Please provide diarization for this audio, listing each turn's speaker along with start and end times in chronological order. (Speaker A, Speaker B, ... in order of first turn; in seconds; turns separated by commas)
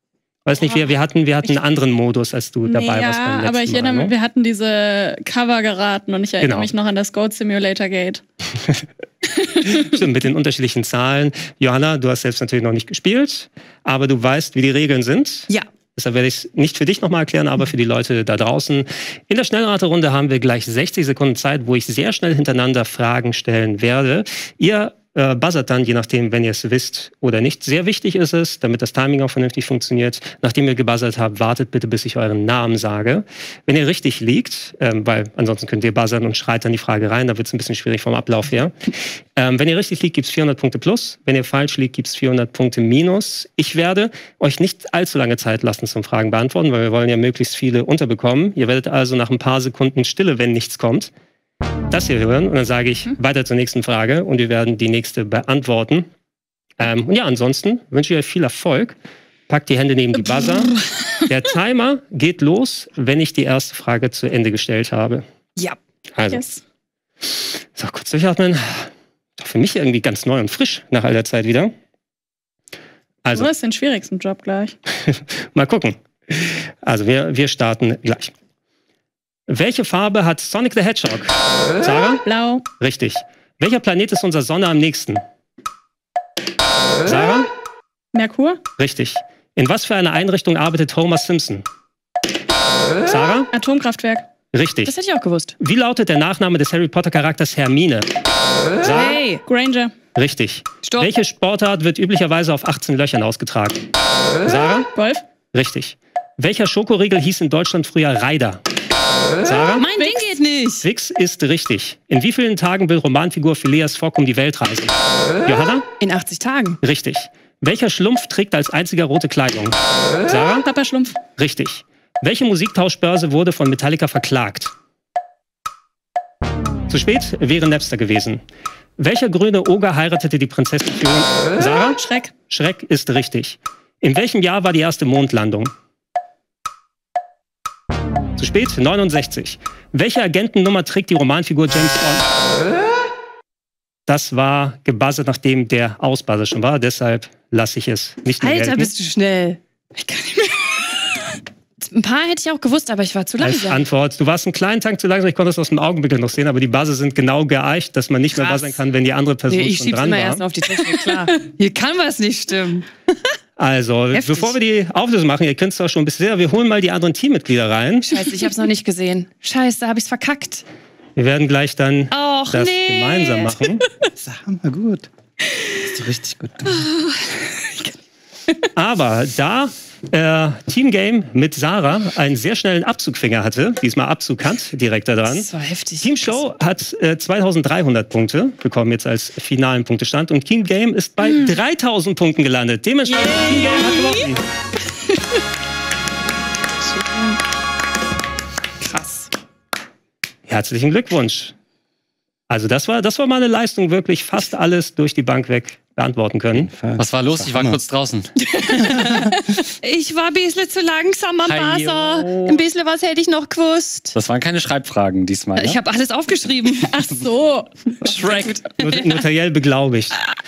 Speaker A: 0.5-4.1, Speaker B: 2.7-8.2, Speaker A: 6.4-6.7, Speaker B: 9.4-9.8, Speaker A: 9.6-51.1, Speaker A: 51.9-56.1, Speaker A: 56.8-59.0, Speaker A: 59.5-60.7, Speaker B: 60.2-61.2, Speaker A: 61.3-65.2, Speaker A: 66.2-66.4, Speaker B: 66.3-66.6, Speaker A: 67.8-71.7, Speaker A: 73.2-73.5, Speaker B: 73.3-74.8, Speaker A: 75.0-78.3, Speaker A: 79.5-82.2, Speaker B: 82.2-82.7, Speaker A: 82.8-85.2, Speaker A: 87.0-87.5, Speaker B: 88.1-88.6, Speaker A: 88.8-91.7, Speaker A: 93.0-93.5, Speaker B: 93.5-94.3, Speaker A: 94.5-94.9, Speaker C: 94.8-95.6, Speaker A: 95.6-98.1, Speaker A: 98.8-99.2, Speaker C: 98.8-99.4, Speaker B: 99.5-99.9, Speaker A: 100.2-103.8, Speaker C: 100.8-101.1, Speaker A: 104.4-104.9, Speaker B: 105.0-105.2, Speaker A: 105.5-108.6, Speaker A: 109.4-109.9, Speaker C: 109.8-110.9, Speaker A: 110.8-115.9, Speaker C: 116.0-116.8, Speaker A: 116.8-120.7, Speaker B: 120.7-121.2, Speaker A: 121.4-124.7, Speaker A: 126.9-128.4, Speaker A: 129.0-135.7, Speaker B: 132.0-132.3, Speaker A: 138.4-142.2, Speaker A: 144.1-148.9, Speaker C: 148.4-149.6, Speaker B: 149.9-151.3, Speaker C: 151.8-153.8, Speaker A: 153.4-160.4, Speaker C: 158.3-158.8, Speaker C: 159.5-163.2, Speaker A: 163.6-168.1, Speaker C: 164.1-164.6, Speaker C: 168.0-170.7, Speaker A: 171.2-173.8, Speaker C: 172.1-173.6, Speaker D: 174.2-175.1, Speaker D: 175.7-176.9, Speaker B: 176.7-177.9, Speaker A: 178.8-185.5, Speaker C: 185.2-186.5, Speaker A: 186.0-194.4, Speaker B: 193.1-194.3, Speaker C: 196.8-197.4, Speaker C: 198.8-199.3, Speaker A: 200.5-201.6, Speaker A: 202.5-206.7, Speaker D: 206.5-207.8, Speaker E: 207.0-208.3, Speaker C: 208.4-214.2, Speaker D: 208.8-209.4, Speaker E: 211.4-212.7, Speaker E: 214.1-215.8, Speaker C: 215.6-217.0, Speaker B: 216.8-218.6, Speaker C: 218.0-219.2, Speaker A: 218.8-220.2